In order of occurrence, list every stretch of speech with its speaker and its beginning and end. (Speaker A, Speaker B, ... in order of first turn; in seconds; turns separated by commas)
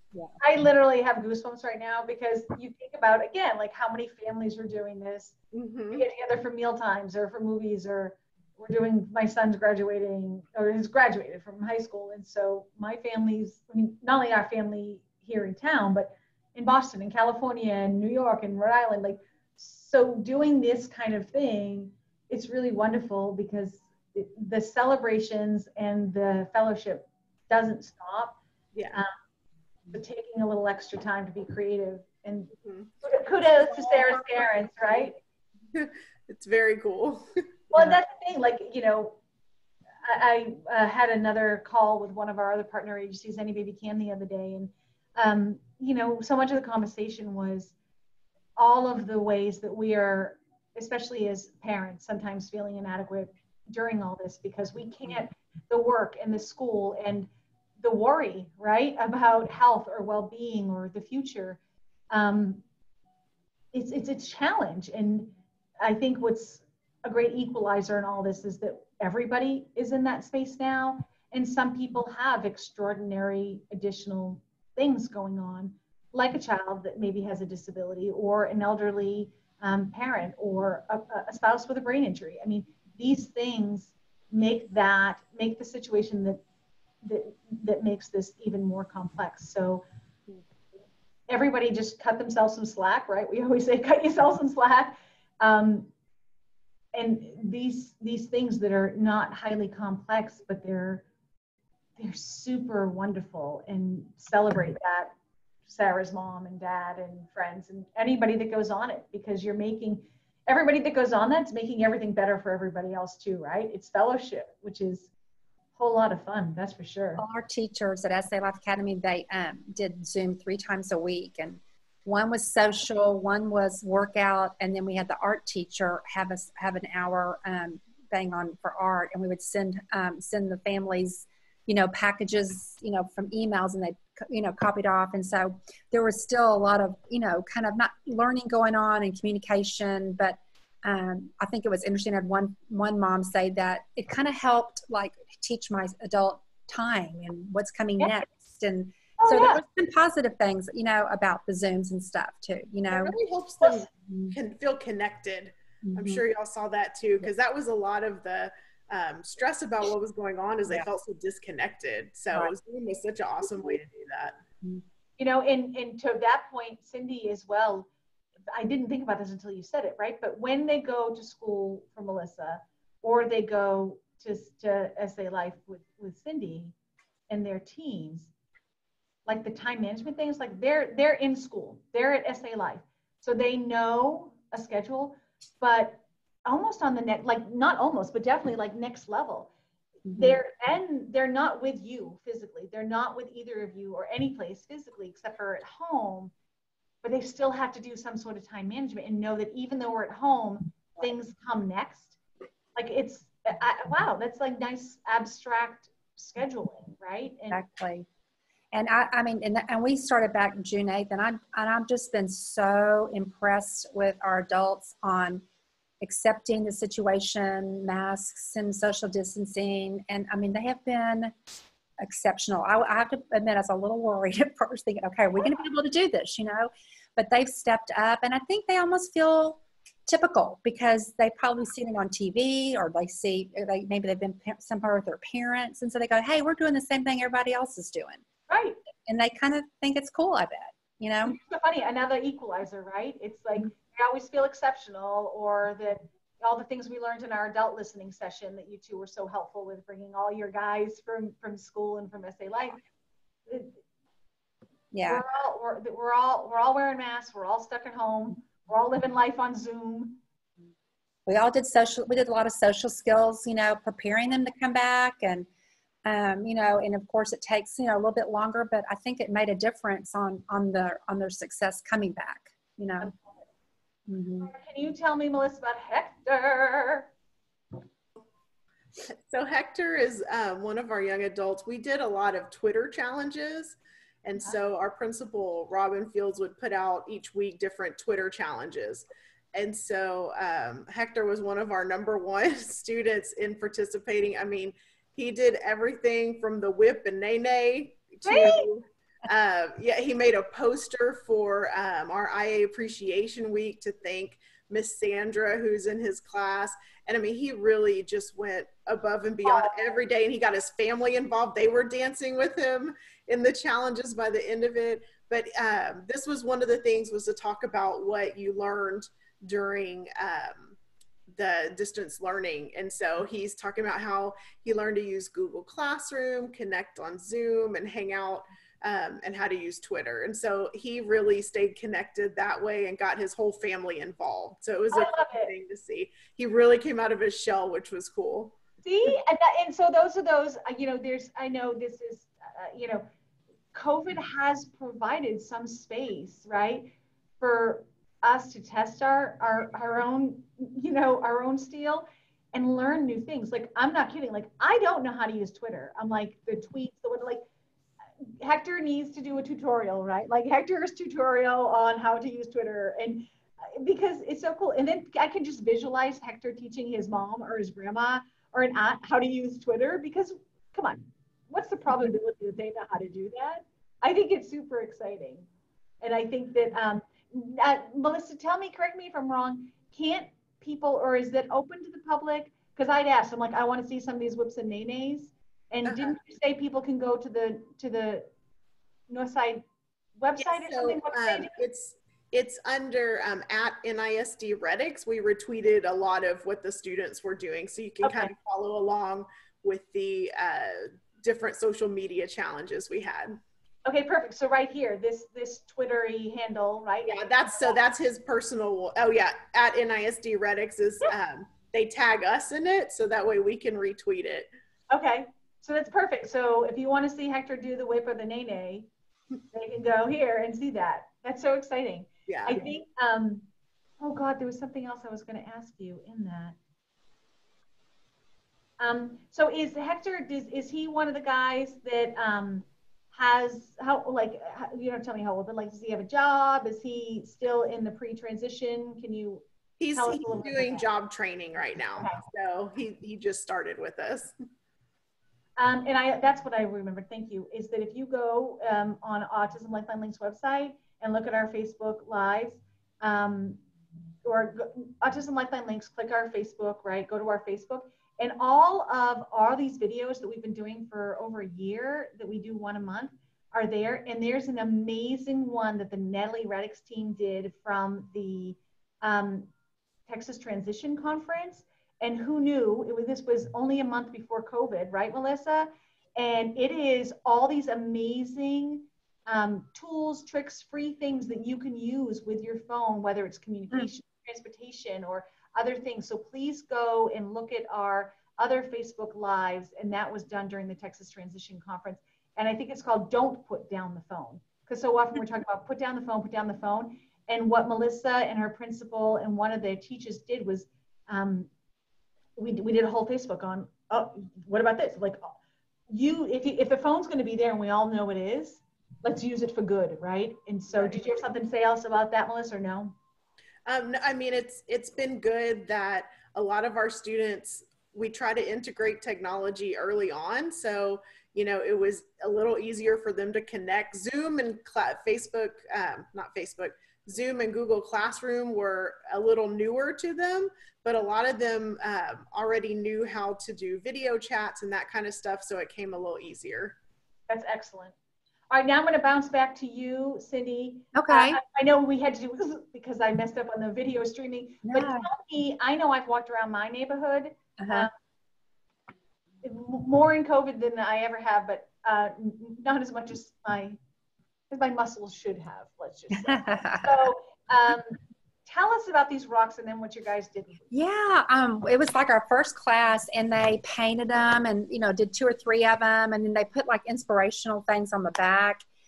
Speaker A: 0.4-5.3, Speaker B: 5.5-6.0, Speaker A: 5.9-28.4, Speaker A: 29.9-32.5, Speaker A: 33.0-35.2, Speaker B: 33.8-34.2, Speaker B: 35.7-37.2, Speaker A: 37.7-39.2, Speaker A: 40.0-47.7, Speaker A: 48.6-61.6, Speaker A: 62.1-62.6, Speaker A: 63.7-86.4, Speaker A: 87.0-89.9, Speaker A: 91.3-95.9, Speaker A: 96.9-101.1, Speaker A: 102.0-105.1, Speaker A: 105.7-115.1, Speaker A: 115.8-117.2, Speaker C: 117.2-153.2, Speaker A: 148.0-148.2, Speaker A: 149.2-149.6, Speaker B: 152.9-164.4, Speaker A: 153.6-153.9, Speaker C: 155.9-156.2, Speaker A: 165.2-167.9, Speaker A: 168.5-176.7, Speaker A: 177.3-178.3, Speaker A: 179.3-189.5, Speaker C: 190.1-190.4, Speaker A: 190.1-196.3, Speaker A: 197.0-202.2, Speaker A: 202.8-207.6, Speaker C: 207.5-208.1, Speaker C: 208.7-215.4, Speaker C: 216.0-221.4, Speaker C: 222.0-238.2, Speaker A: 238.5-238.8, Speaker C: 239.1-241.4, Speaker A: 241.2-252.8, Speaker A: 253.5-253.8, Speaker C: 254.9-255.2, Speaker A: 255.1-260.2, Speaker C: 261.3-265.5, Speaker C: 266.1-273.1, Speaker A: 273.0-273.4, Speaker C: 274.1-274.5, Speaker A: 274.4-277.1, Speaker B: 279.1-320.8, Speaker A: 298.2-298.7, Speaker A: 309.5-309.7, Speaker B: 321.4-338.6, Speaker A: 334.9-335.5, Speaker A: 338.8-343.1, Speaker A: 343.7-357.5, Speaker A: 358.4-375.5, Speaker A: 376.0-388.3, Speaker B: 385.9-386.1, Speaker A: 389.1-389.6, Speaker A: 390.2-391.5, Speaker B: 390.5-403.4, Speaker A: 398.0-398.3, Speaker A: 403.9-407.8, Speaker B: 407.1-414.5, Speaker A: 414.9-418.9, Speaker A: 419.5-423.5, Speaker B: 422.3-422.6, Speaker A: 424.0-426.6, Speaker A: 428.8-439.4, Speaker B: 439.8-444.3, Speaker A: 440.0-440.9, Speaker A: 445.6-453.6, Speaker A: 454.2-469.5, Speaker A: 470.1-501.5, Speaker A: 502.4-505.3, Speaker A: 505.9-513.0, Speaker B: 510.7-511.0, Speaker B: 513.7-536.8, Speaker A: 537.3-538.0, Speaker A: 538.5-547.9, Speaker C: 540.9-541.4, Speaker C: 544.7-545.1, Speaker C: 547.6-547.9, Speaker A: 549.4-553.8, Speaker A: 554.5-560.7, Speaker C: 556.2-556.9, Speaker C: 560.7-568.6